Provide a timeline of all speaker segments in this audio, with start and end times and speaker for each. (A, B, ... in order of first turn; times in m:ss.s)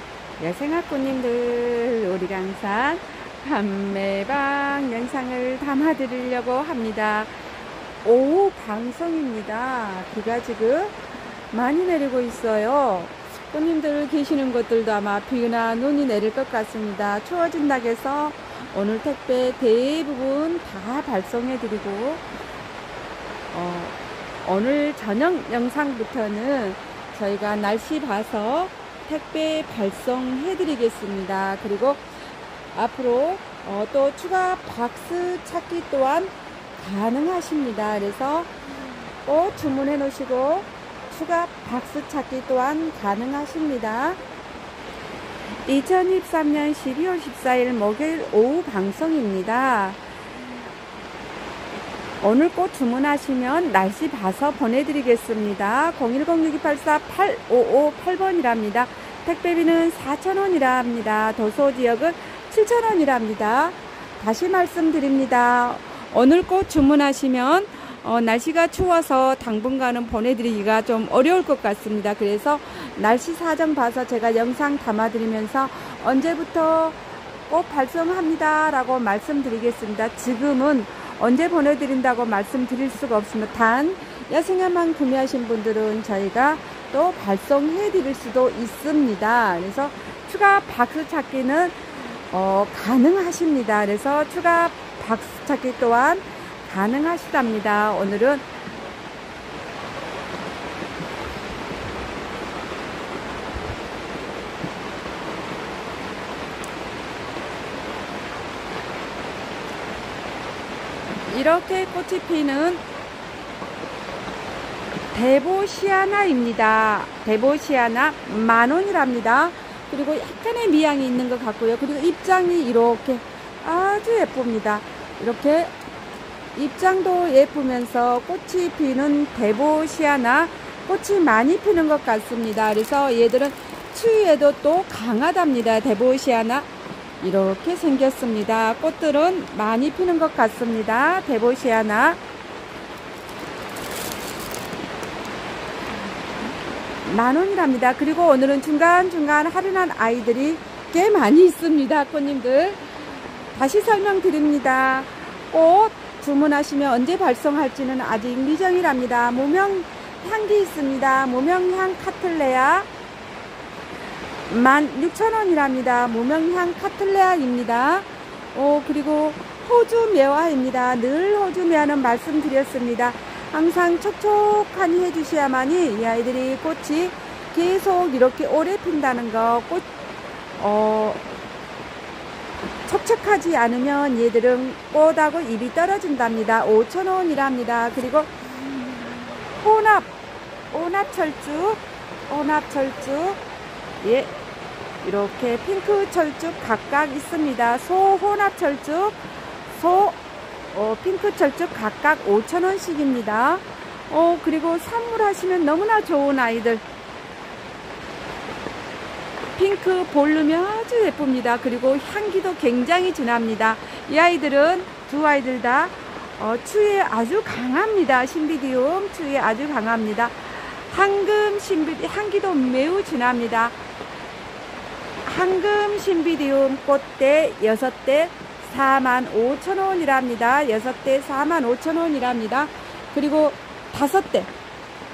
0:00.4-0:07.3 A
0:08.0-0:11.0 A
0:11.5-0:22.2 A
0:23.5-0:32.0 A
0:32.7-0:38.5 A
0:39.2-0:44.2 A
0:45.7-0:50.0 A
0:52.2-1:38.4 A
1:51.3-1:52.8 A
1:55.1-2:05.7 A
2:06.5-2:16.7 A
2:17.2-2:22.2 A
2:27.0-2:32.9 A
2:33.5-2:42.9 A
2:44.5-2:59.8 A
3:00.6-3:01.2 A
3:02.8-3:08.3 A
3:09.6-3:10.1 A
3:10.7-3:13.4 A
3:14.0-3:14.3 A
3:15.0-3:20.2 A
3:20.7-3:26.8 A
3:29.6-3:43.7 A
3:45.2-3:54.5 A